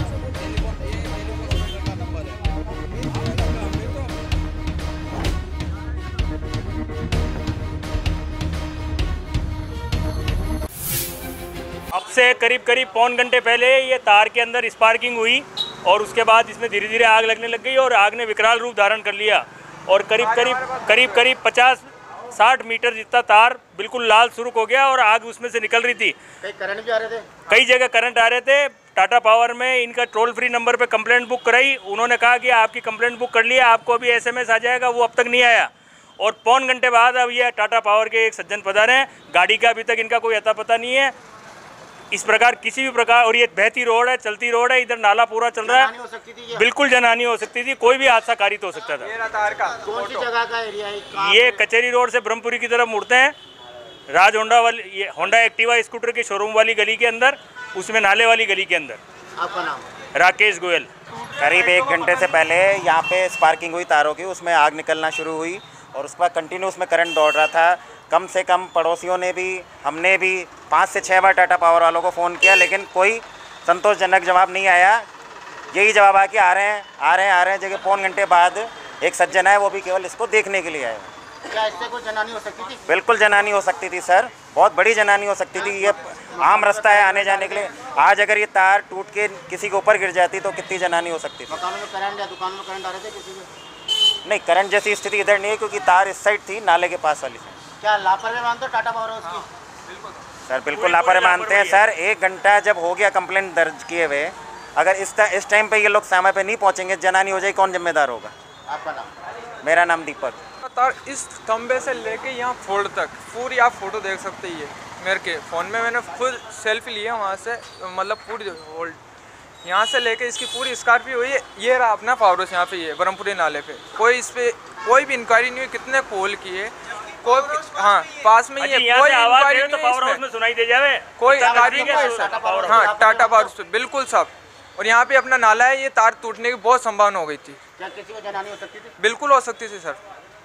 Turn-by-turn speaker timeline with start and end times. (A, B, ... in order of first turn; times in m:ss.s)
0:00.7-0:02.1 A
0:11.9-0:26.2 B
0:20.2-0:21.2 A
0:26.4-0:27.4 C
0:27.5-0:41.1 B
0:42.1-0:45.9 B
0:45.6-0:46.7 C
0:46.6-0:49.1 B
0:49.0-0:50.2 A
0:49.8-0:51.6 C
0:51.2-0:53.3 B
0:54.1-0:59.0 B
0:59.4-0:59.8 C
1:00.1-1:00.9 B
1:01.4-1:15.0 D
1:15.7-1:21.1 D
1:21.5-1:22.9 C
1:22.9-1:31.6 D
1:25.6-1:27.7 C
1:31.5-1:33.5 C
1:34.2-1:37.6 D
1:37.8-1:39.4 C
1:40.5-1:48.3 D
1:40.7-1:41.8 B
1:48.7-1:49.1 C
1:49.6-1:50.4 D
1:50.6-1:59.0 A
1:59.6-2:10.2 A
2:08.6-2:12.8 B
2:11.2-2:17.6 A
2:11.3-2:13.5 C
2:17.8-2:18.9 C
2:19.0-2:20.0 A